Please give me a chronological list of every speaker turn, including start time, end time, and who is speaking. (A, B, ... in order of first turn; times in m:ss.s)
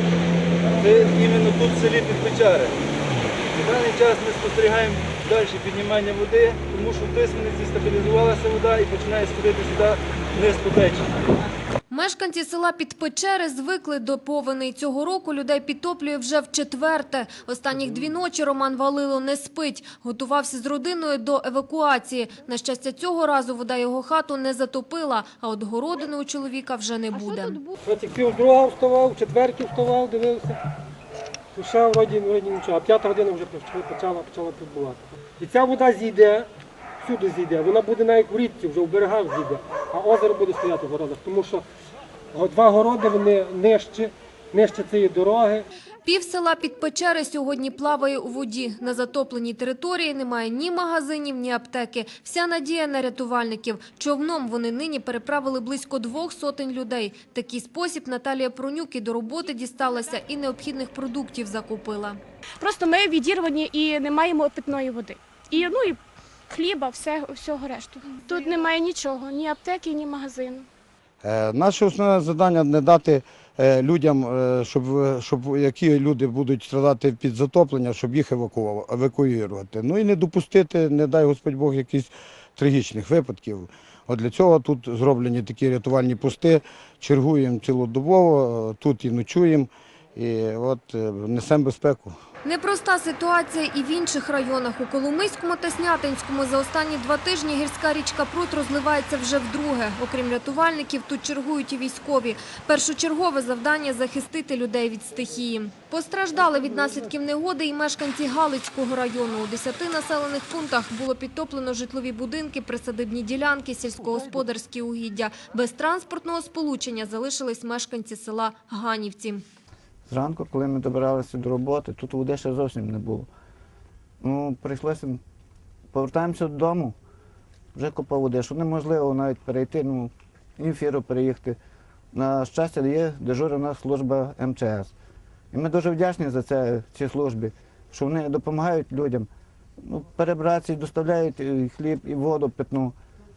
0:00.8-0:02.8 A
0:03.5-0:11.1 A
0:11.9-0:27.6 B
0:27.8-0:30.6 C
0:31.6-0:41.6 C
0:42.3-0:45.7 C
0:46.0-1:02.2 B
1:02.6-1:10.7 D
1:11.2-1:32.2 E
1:32.4-1:59.4 B
2:00.1-2:03.3 F
2:04.2-2:05.2 F
2:05.9-2:07.0 F
2:07.7-2:11.6 F
2:12.1-2:14.9 F
2:15.5-2:19.3 F
2:19.8-2:22.9 F